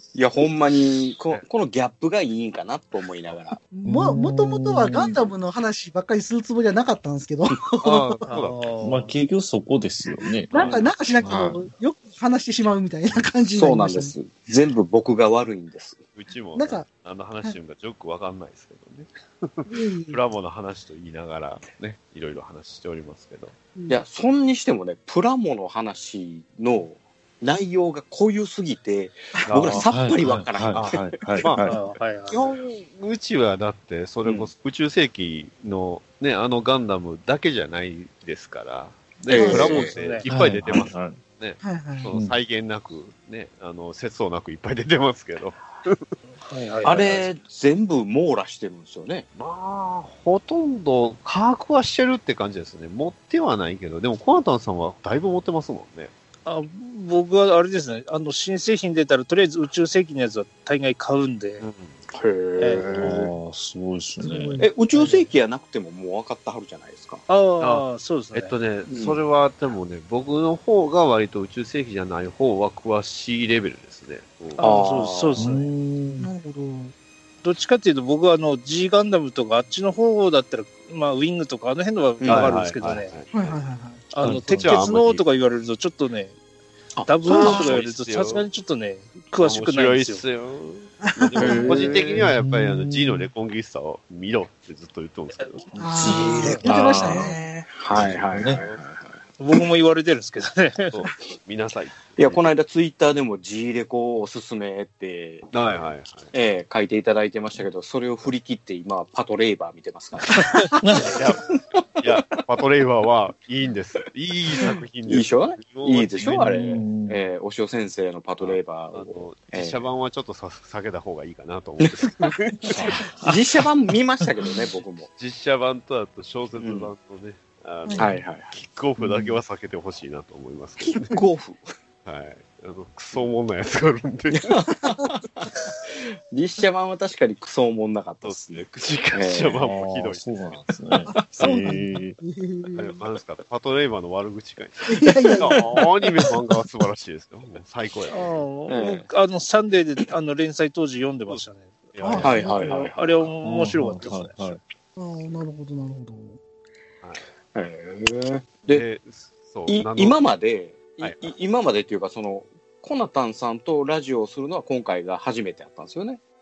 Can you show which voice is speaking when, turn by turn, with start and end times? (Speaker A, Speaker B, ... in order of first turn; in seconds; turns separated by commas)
Speaker A: 0.1-3.6, Speaker B: 3.7-7.7, Speaker C: 3.8-5.1, Speaker A: 7.6-8.1, Speaker D: 7.8-8.7, Speaker E: 8.2-9.1, Speaker C: 8.8-10.5, Speaker B: 10.5-14.1, Speaker D: 10.6-10.8, Speaker C: 11.2-11.6, Speaker A: 13.5-16.0, Speaker D: 16.1-23.5, Speaker B: 16.6-16.9, Speaker B: 19.6-20.2, Speaker B: 23.7-24.0, Speaker A: 23.9-31.4, Speaker D: 29.5-29.8, Speaker C: 29.6-31.8, Speaker D: 31.4-46.0, Speaker E: 31.6-32.5, Speaker A: 34.2-34.5, Speaker A: 39.3-40.0, Speaker B: 39.3-39.9, Speaker E: 39.5-40.2, Speaker C: 40.3-41.2, Speaker B: 41.6-42.1, Speaker C: 42.1-42.4, Speaker E: 46.3-47.2, Speaker A: 46.8-49.3, Speaker D: 49.4-56.1, Speaker E: 56.5-61.6, Speaker D: 61.6-62.0, Speaker A: 62.1-63.3, Speaker E: 62.6-62.9, Speaker C: 63.0-64.6, Speaker B: 64.2-64.6, Speaker A: 64.6-67.2, Speaker E: 64.9-65.2, Speaker E: 67.3-68.5, Speaker D: 67.6-74.6, Speaker A: 68.9-69.2, Speaker E: 74.6-75.7, Speaker A: 74.6-75.5, Speaker C: 75.4-76.3, Speaker B: 76.2-76.9, Speaker E: 77.4-83.1, Speaker A: 82.2-82.6, Speaker D: 82.3-83.6, Speaker B: 83.3-84.0, Speaker E: 84.1-86.3, Speaker C: 84.2-84.8, Speaker D: 84.4-85.2, Speaker A: 87.0-87.8, Speaker E: 87.0-90.2, Speaker B: 87.2-87.7, Speaker D: 87.3-88.5, Speaker D: 89.3-95.7, Speaker B: 91.0-91.6, Speaker A: 91.4-92.2, Speaker C: 92.1-93.3, Speaker C: 95.7-97.3, Speaker B: 95.8-97.4, Speaker A: 96.0-99.2, Speaker D: 97.9-98.8, Speaker C: 98.0-98.6, Speaker E: 99.4-101.0, Speaker D: 100.9-102.5, Speaker A: 102.2-105.5, Speaker D: 105.5-106.3, Speaker A: 106.3-112.2, Speaker C: 110.8-111.1, Speaker D: 111.0-111.4, Speaker D: 112.0-116.6, Speaker A: 114.5-119.8, Speaker C: 116.2-117.2, Speaker D: 118.4-122.9, Speaker A: 121.8-122.3, Speaker C: 122.7-123.3, Speaker A: 122.8-125.1, Speaker D: 125.1-131.1, Speaker A: 126.6-126.9, Speaker B: 127.8-128.1, Speaker A: 128.0-128.5, Speaker A: 130.8-131.7, Speaker D: 132.0-134.6, Speaker A: 134.3-135.5, Speaker A: 136.3-139.8, Speaker D: 138.2-140.6, Speaker C: 139.6-142.2, Speaker B: 141.1-142.9, Speaker D: 141.2-141.5, Speaker D: 142.7-148.4, Speaker B: 144.9-145.7, Speaker E: 148.1-151.8, Speaker A: 148.7-149.1, Speaker D: 151.9-153.2, Speaker B: 152.0-152.7, Speaker A: 152.2-152.9, Speaker E: 152.7-154.5, Speaker C: 153.4-154.6, Speaker B: 154.9-156.4, Speaker A: 157.5-158.8, Speaker D: 158.7-160.2, Speaker A: 159.7-166.2, Speaker D: 161.0-161.3